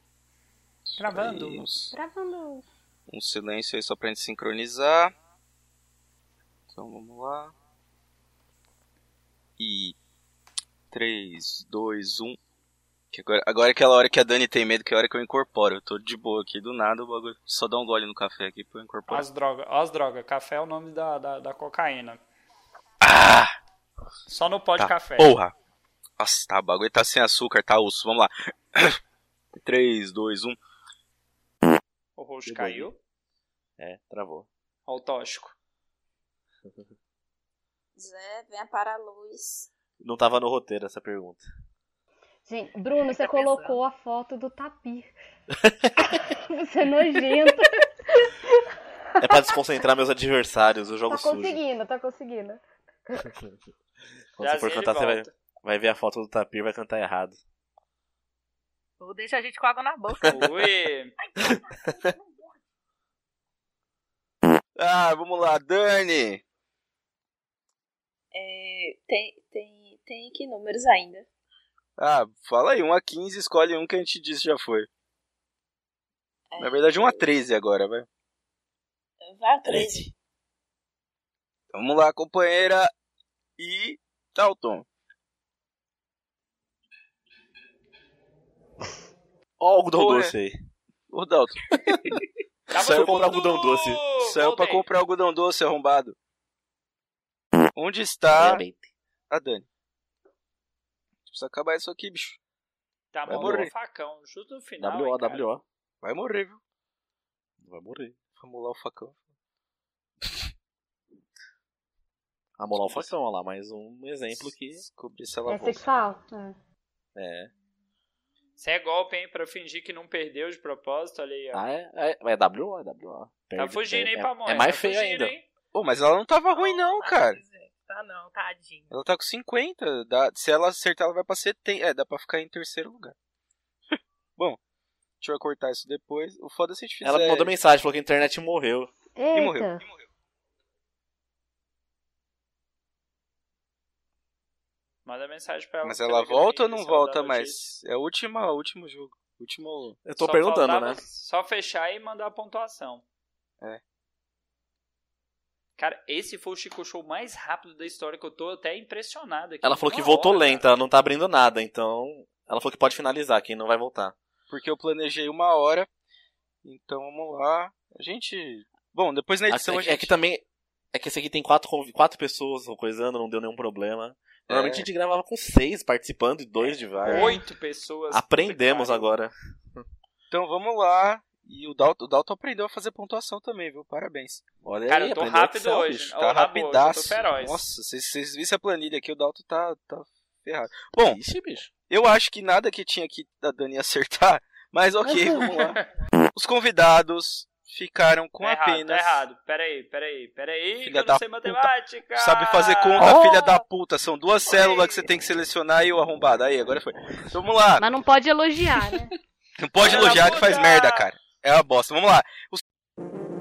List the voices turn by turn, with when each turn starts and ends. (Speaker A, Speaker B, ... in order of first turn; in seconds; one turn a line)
Speaker A: 1.0-1.9
Speaker B: 1.0-1.7
Speaker C: 1.9-2.6
Speaker A: 3.1-5.1
Speaker A: 6.7-7.5
Speaker A: 9.6-10.0
Speaker A: 10.9-12.4
Speaker A: 13.1-19.3
Speaker B: 19.1-22.2
Speaker A: 23.0-23.6
Speaker B: 24.3-25.4
Speaker A: 24.8-25.5
Speaker A: 26.2-29.0
Speaker A: 29.6-30.6
Speaker B: 32.2-33.0
Speaker D: 32.5-32.9
Speaker D: 33.8-34.5
Speaker B: 34.9-35.6
Speaker E: 38.0-39.7
Speaker D: 40.0-41.4
Speaker C: 42.5-45.1
Speaker F: 43.2-43.8
Speaker D: 45.6-46.1
Speaker C: 46.1-48.7
Speaker D: 49.2-51.6
Speaker C: 51.1-52.6
Speaker D: 54.4-57.4
Speaker B: 54.4-55.3
Speaker F: 59.0-60.5
Speaker B: 60.3-61.1
Speaker F: 61.3-62.6
Speaker A: 64.8-66.4
Speaker E: 68.3-71.3
Speaker A: 72.0-74.9
Speaker E: 76.5-77.3
Speaker A: 76.6-78.1
Speaker E: 79.2-80.1
Speaker D: 79.7-80.1
Speaker A: 81.7-82.9
Speaker A: 83.6-84.9
Speaker D: 89.6-90.6
Speaker A: 89.9-90.3
Speaker A: 91.1-92.2
Speaker B: 92.7-94.9
Speaker D: 92.7-94.0
Speaker A: 92.8-93.3
Speaker A: 94.2-96.2
Speaker A: 97.8-98.6
Speaker D: 98.3-98.9
Speaker A: 99.3-99.7
Speaker A: 101.3-102.4
Speaker B: 103.1-105.5
Speaker A: 103.3-103.7
Speaker D: 103.3-103.7
Speaker D: 104.8-105.6
Speaker A: 106.0-106.6
Speaker D: 107.6-108.2
Speaker A: 108.4-109.2
Speaker D: 112.6-114.8
Speaker A: 112.8-113.1
Speaker A: 114.8-115.9
Speaker C: 115.5-116.6
Speaker D: 117.2-117.5
Speaker B: 118.6-121.6
Speaker D: 121.5-125.3
Speaker B: 123.6-125.5
Speaker A: 125.7-127.4
Speaker F: 126.5-128.9
Speaker A: 128.9-133.2
Speaker A: 133.9-134.6
Speaker A: 135.2-137.5
Speaker D: 137.0-138.9
Speaker C: 139.2-139.8
Speaker A: 139.3-139.7
Speaker B: 145.1-147.6
Speaker A: 145.8-150.0
Speaker D: 150.1-151.0
Speaker B: 150.2-153.0
Speaker B: 155.8-160.7
Speaker D: 159.6-164.2
Speaker A: 164.5-165.9
Speaker A: 166.6-170.1
Speaker D: 169.5-177.4
Speaker A: 174.5-174.9
Speaker B: 176.6-179.1
Speaker C: 177.1-177.4
Speaker D: 178.1-179.8
Speaker A: 180.3-184.4
Speaker D: 184.6-186.1
Speaker B: 184.9-187.6
Speaker A: 186.1-191.2
Speaker D: 191.0-191.7
Speaker A: 191.9-195.8
Speaker A: 196.3-199.2
Speaker B: 198.4-203.1
Speaker A: 200.8-207.8
Speaker C: 207.8-209.1
Speaker A: 209.6-212.6
Speaker D: 209.8-210.3
Speaker B: 209.8-211.1